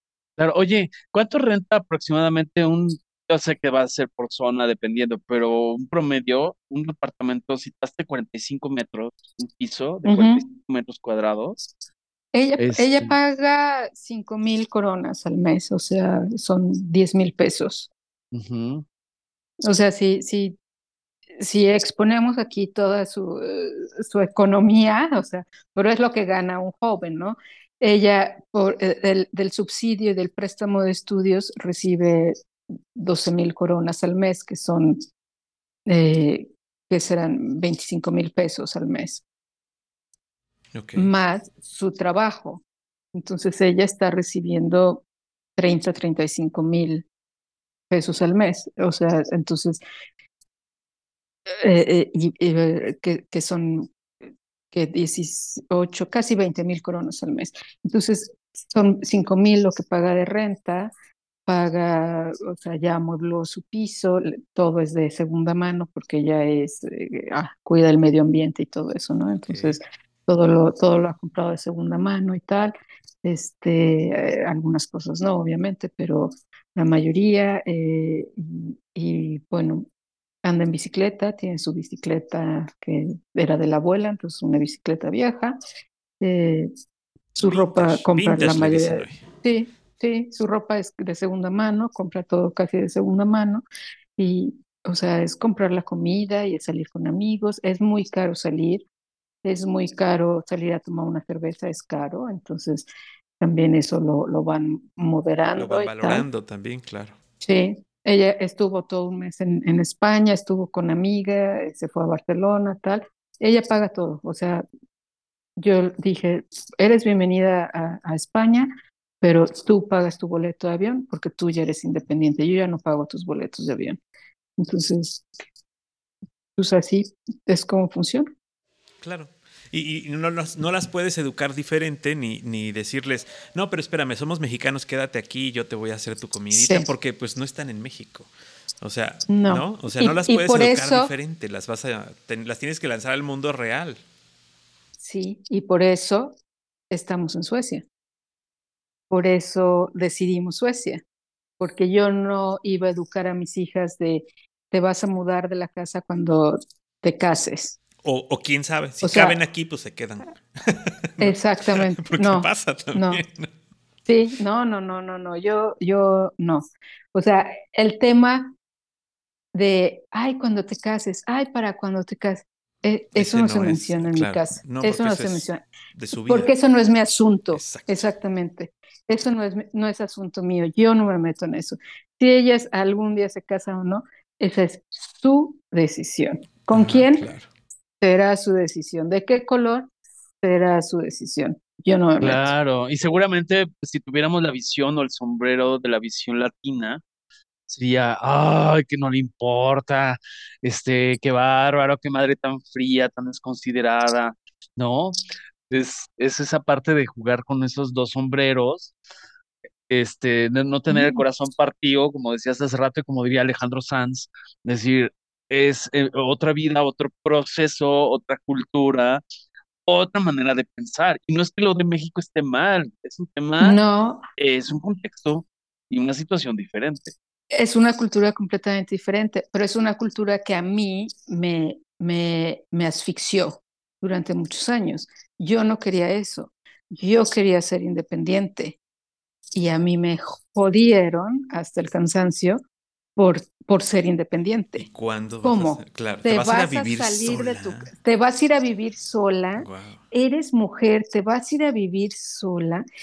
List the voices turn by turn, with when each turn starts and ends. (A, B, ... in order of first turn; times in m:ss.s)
0:00.4-0:11.6 A
0:10.0-0:10.4 B
0:12.3-0:17.9 B
0:12.6-0:13.1 A
0:18.3-0:18.8 A
0:19.6-0:20.6 B
0:21.4-0:32.4 B
0:32.9-0:35.0 B
0:35.8-0:39.2 B
0:40.7-0:41.1 C
0:41.0-0:42.6 B
0:43.1-0:45.0 B
0:45.6-0:47.0 B
0:47.9-0:49.8 B
0:51.5-0:53.9 B
0:54.7-1:00.9 B
1:01.4-1:12.7 B
1:09.4-1:09.8 C
1:13.2-1:19.9 B
1:20.4-1:25.6 B
1:26.2-1:26.7 B
1:27.4-1:29.2 C
1:27.4-1:33.6 B
1:34.2-1:38.8 B
1:39.4-1:42.9 B
1:43.4-1:46.3 B
1:45.6-1:47.2 C
1:47.4-1:54.6 B
1:55.6-1:58.7 B
1:59.2-2:04.0 B
2:04.6-2:05.2 B
2:06.6-2:08.3 B
2:09.0-2:18.3 C
2:16.5-2:16.9 B
2:18.8-2:24.0 C
2:19.3-2:21.1 B
2:25.0-2:26.4 B
2:26.9-2:27.8 B
2:29.1-2:31.0 B
2:31.6-2:37.8 B
2:38.0-2:43.5 C
2:39.0-2:39.4 B
2:41.2-2:43.2 B
2:44.0-2:48.5 B
2:49.5-2:55.6 B
2:53.2-2:56.5 C
2:56.3-3:07.2 B
2:57.5-2:58.1 C
3:06.7-3:07.5 C
3:08.0-3:09.9 B
3:10.4-3:12.5 B
3:12.2-3:17.0 A
3:17.7-3:25.2 A
3:25.7-3:28.9 A
3:29.9-3:39.2 A
3:30.9-3:31.2 B
3:39.8-3:43.8 A
3:43.6-3:44.2 B
3:44.4-3:47.1 A
3:47.5-3:58.8 B
3:59.5-4:02.6 B
4:03.2-4:04.9 B
4:04.8-4:07.9 C
4:05.4-4:12.8 B
4:09.6-4:10.0 C